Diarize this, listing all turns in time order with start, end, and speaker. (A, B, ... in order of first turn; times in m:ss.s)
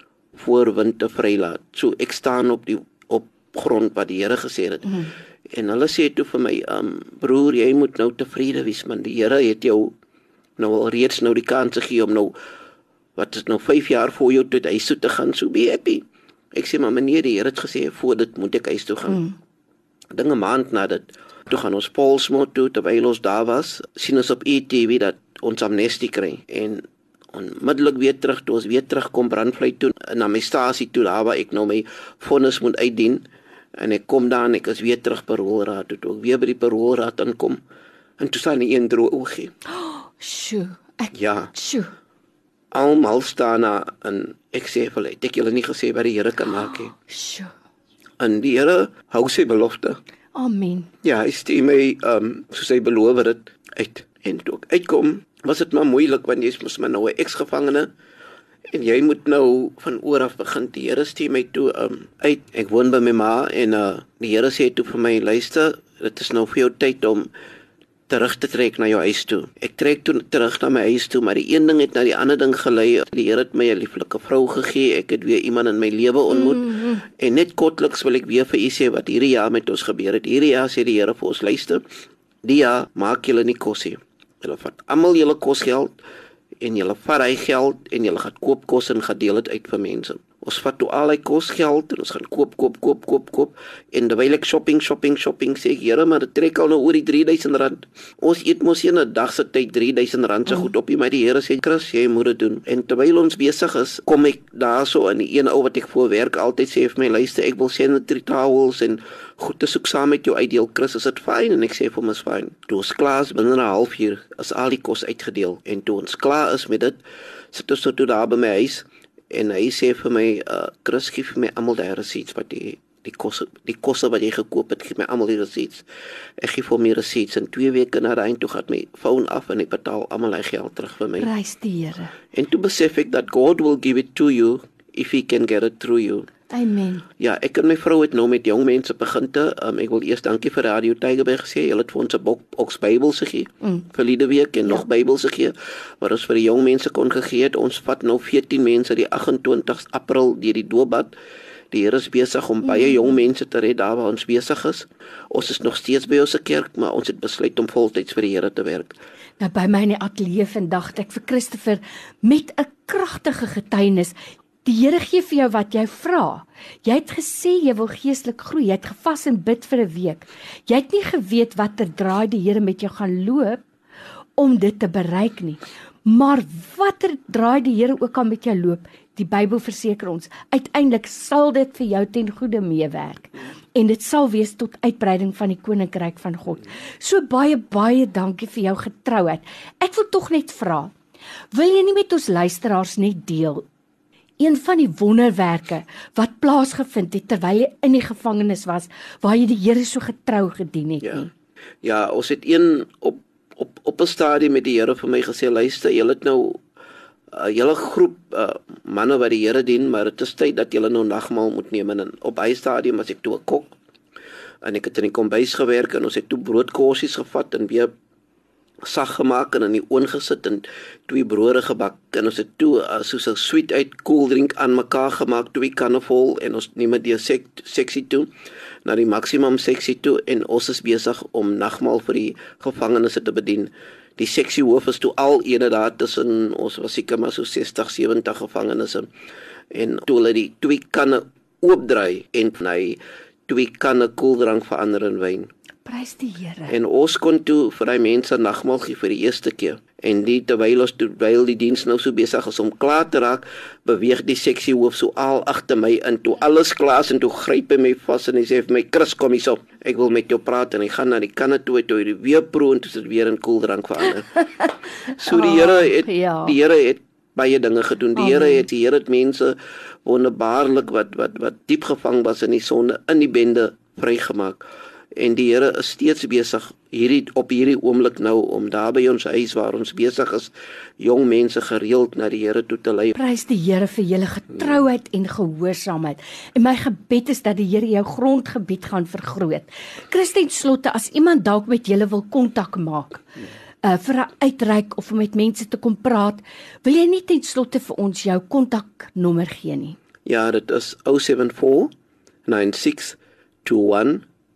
0:00.4-0:09.9 A
0:10.6-0:12.3 A
0:13.2-0:16.0 A
0:16.5-0:19.2 A
0:20.1-0:33.2 A
0:33.8-0:37.6 A
0:38.2-0:39.5 A
0:39.7-0:41.9 B
0:41.1-0:41.5 A
0:42.7-0:46.9 A
0:46.6-0:47.5 B
0:48.2-0:50.0 A
0:50.4-0:50.9 B
0:51.0-0:57.9 A
0:58.7-1:07.3 A
1:08.1-1:21.8 A
1:16.3-1:17.0 B
1:22.4-1:26.0 A
1:26.6-1:57.0 A
1:57.5-2:05.9 A
2:06.4-2:11.3 A
2:11.2-2:12.1 B
2:12.3-2:16.3 A
2:16.5-2:17.0 B
2:17.2-2:31.1 A
2:31.7-2:39.0 A
2:32.7-2:33.0 B
2:39.4-2:53.6 B
2:54.4-3:10.9 B
3:11.5-3:13.6 B
3:14.4-3:21.3 B
3:21.8-3:26.6 A
3:27.3-3:33.7 A
3:34.6-3:37.9 A
3:38.9-3:48.3 A
3:48.8-3:59.1 A
3:59.7-4:05.5 A
4:05.8-4:06.8 B
4:06.7-4:24.3 A
4:24.4-4:26.6 B
4:25.1-4:34.6 A
4:28.2-4:28.6 B
4:35.2-4:43.1 A
4:43.1-4:53.3 B
4:53.8-5:00.0 B
5:00.3-5:01.9 A
5:02.5-5:04.2 A